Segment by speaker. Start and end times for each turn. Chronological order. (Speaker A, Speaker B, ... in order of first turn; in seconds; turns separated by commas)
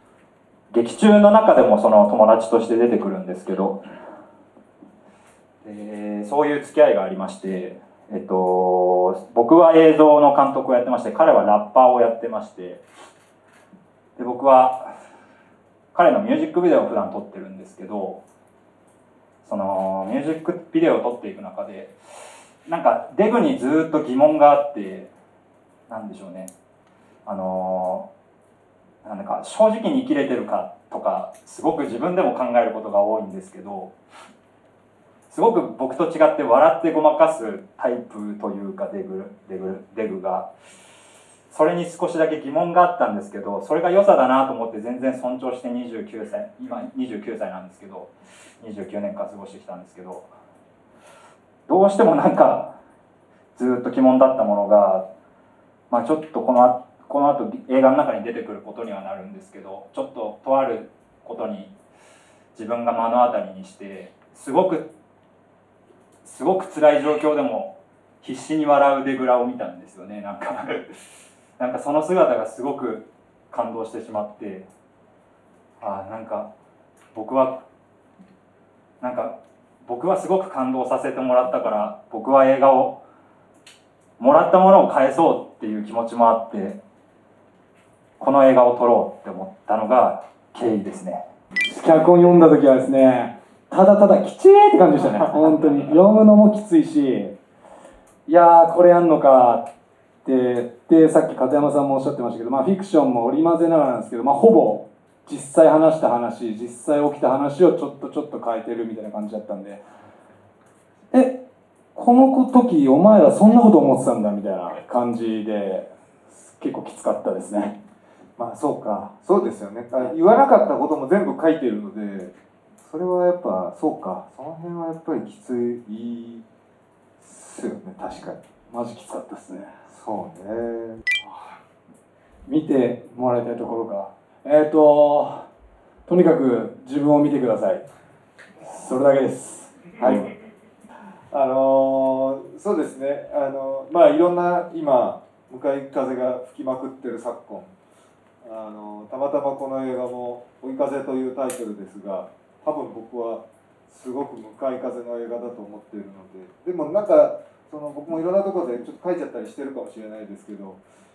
Speaker A: 0.7-3.8, Speaker A: 5.6-12.8, Speaker A: 14.2-14.9, Speaker A: 15.9-18.2, Speaker A: 19.4-21.9, Speaker A: 22.7-25.1, Speaker A: 25.9-26.5, Speaker A: 27.2-28.1, Speaker A: 29.0-33.9, Speaker A: 35.3-40.5, Speaker A: 41.5-50.3, Speaker A: 51.7-52.8, Speaker A: 53.5-55.0, Speaker A: 55.9-61.7, Speaker A: 62.5-64.9, Speaker A: 66.2-70.9, Speaker A: 71.6-74.7, Speaker A: 75.8-76.5, Speaker A: 77.1-77.7, Speaker A: 79.0-83.0, Speaker A: 84.2-86.8, Speaker A: 88.2-91.3, Speaker B: 91.7-97.4, Speaker B: 98.3-99.7, Speaker B: 100.2-109.8, Speaker B: 111.1-111.5, Speaker B: 112.0-117.8, Speaker B: 118.4-119.1, Speaker C: 119.1-126.4, Speaker C: 127.2-128.4, Speaker B: 128.7-129.7, Speaker C: 129.9-131.0, Speaker B: 132.5-135.5, Speaker B: 136.1-137.8, Speaker B: 138.6-140.3, Speaker C: 140.0-140.3, Speaker C: 141.3-147.8, Speaker C: 148.4-160.8